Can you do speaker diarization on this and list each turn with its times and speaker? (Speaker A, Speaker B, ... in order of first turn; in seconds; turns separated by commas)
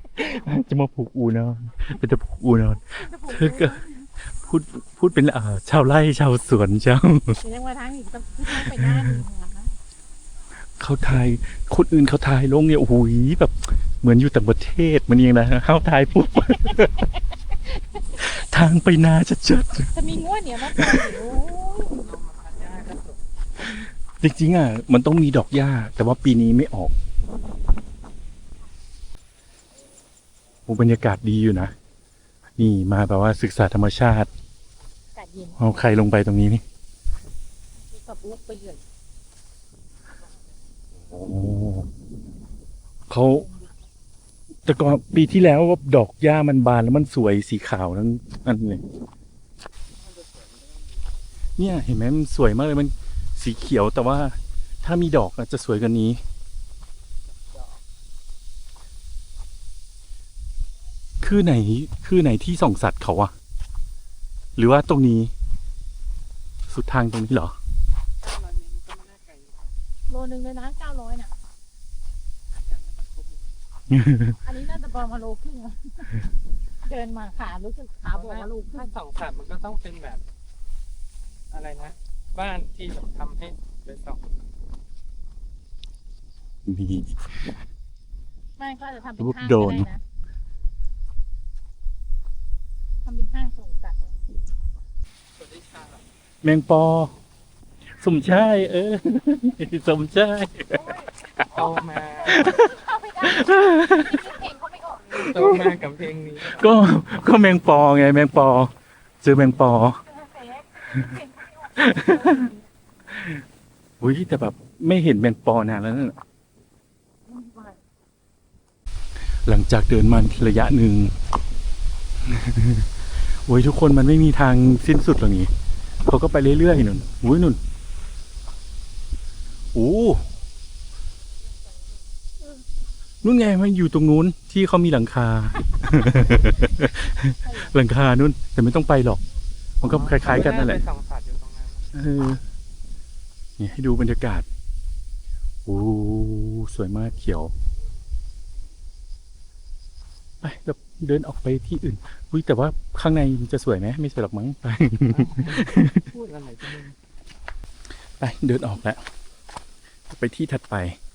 Speaker A: 0.1-7.4, Speaker B: 2.9-4.1, Speaker B: 7.4-9.7, Speaker A: 8.6-9.0, Speaker A: 10.8-16.9, Speaker B: 16.3-16.9, Speaker B: 17.6-18.3, Speaker A: 18.2-19.9, Speaker B: 19.9-22.1, Speaker A: 20.6-21.2, Speaker C: 21.9-23.2, Speaker A: 24.2-26.9, Speaker A: 30.7-31.7, Speaker A: 32.6-34.3, Speaker B: 35.1-35.8, Speaker A: 35.6-36.6, Speaker B: 37.9-38.8, Speaker A: 41.0-41.9, Speaker A: 43.1-43.5, Speaker B: 43.2-43.9, Speaker A: 44.6-48.8, Speaker A: 51.5-56.2, Speaker A: 61.2-63.3, Speaker A: 64.6-65.3, Speaker A: 66.7-67.5, Speaker C: 68.2-69.8, Speaker B: 70.1-71.3, Speaker C: 72.7-73.5, Speaker A: 73.9-74.4, Speaker B: 74.4-76.2, Speaker B: 76.8-78.9, Speaker C: 78.1-80.2, Speaker C: 81.5-84.2, Speaker A: 86.7-87.5, Speaker B: 88.6-90.0, Speaker A: 89.2-89.9, Speaker B: 93.0-94.2, Speaker C: 95.4-96.0, Speaker A: 96.4-97.1, Speaker A: 97.9-101.0, Speaker B: 100.7-101.1, Speaker C: 101.5-102.4, Speaker B: 102.1-105.5, Speaker A: 102.3-102.6, Speaker A: 103.3-104.2, Speaker C: 105.1-106.7, Speaker A: 105.3-105.7, Speaker A: 106.4-110.0, Speaker B: 110.0-112.7, Speaker A: 111.8-112.3, Speaker A: 114.0-116.2, Speaker B: 117.3-117.8, Speaker A: 119.5-121.1, Speaker A: 122.2-122.9, Speaker A: 123.5-125.5, Speaker A: 126.0-127.6, Speaker A: 129.7-130.2, Speaker A: 133.2-139.2, Speaker B: 137.4-137.8, Speaker A: 139.8-140.8, Speaker C: 139.8-141.9, Speaker A: 141.9-142.4, Speaker A: 143.6-144.4, Speaker A: 145.6-147.5, Speaker A: 150.4-155.9, Speaker C: 155.0-157.0, Speaker A: 158.2-159.0, Speaker A: 160.1-161.0